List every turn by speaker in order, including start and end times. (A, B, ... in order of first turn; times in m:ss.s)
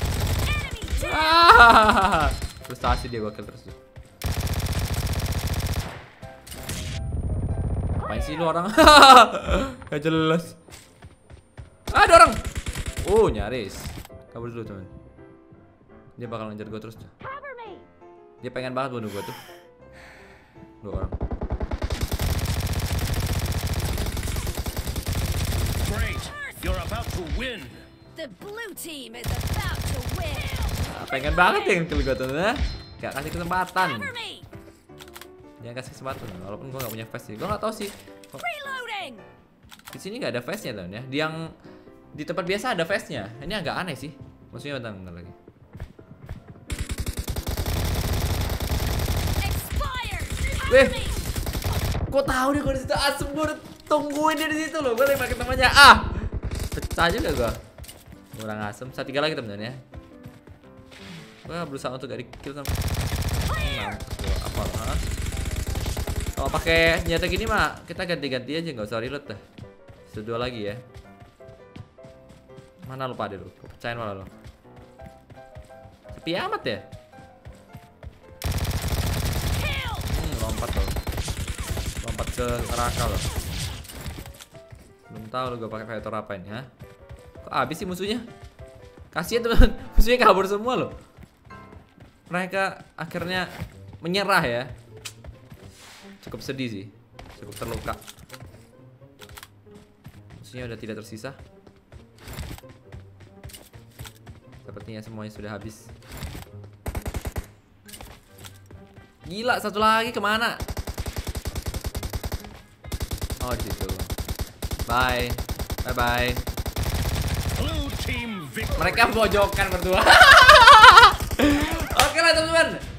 0:00.4-0:01.5 A
0:00.9-0:03.8 B
0:07.9-0:10.6 B
0:11.9-0:12.4 B
0:13.0-0:14.9 B
0:16.2-0:17.1 B
0:17.4-0:17.8 A
0:18.4-0:19.4 B
0:20.8-0:21.2 B
0:25.8-0:31.8 A
0:26.7-0:27.5 C
0:30.8-0:34.1 B
0:33.8-0:34.5 A
0:35.6-0:38.4 B
0:38.4-0:39.2 A
0:39.9-0:41.4 B
0:42.1-0:45.4 B
0:49.4-0:51.2 A
0:50.6-0:51.1 B
0:52.1-0:57.6 B
0:58.3-0:59.8 B
1:01.4-1:02.7 B
1:03.4-1:05.1 B
1:06.4-1:09.4 B
1:10.0-1:10.8 B
1:12.8-1:14.3 B
1:16.1-1:16.8 B
1:20.0-1:20.9 B
1:22.0-1:23.3 B
1:25.1-1:26.7 B
1:27.4-1:28.2 B
1:29.1-1:30.9 B
1:32.3-1:34.7 B
1:36.2-1:38.0 B
1:40.4-1:41.4 B
1:44.6-1:45.9 B
1:49.2-1:50.6 B
1:53.4-1:54.1 B
1:54.8-1:56.4 B
1:57.6-1:58.7 C
1:58.7-2:02.8 B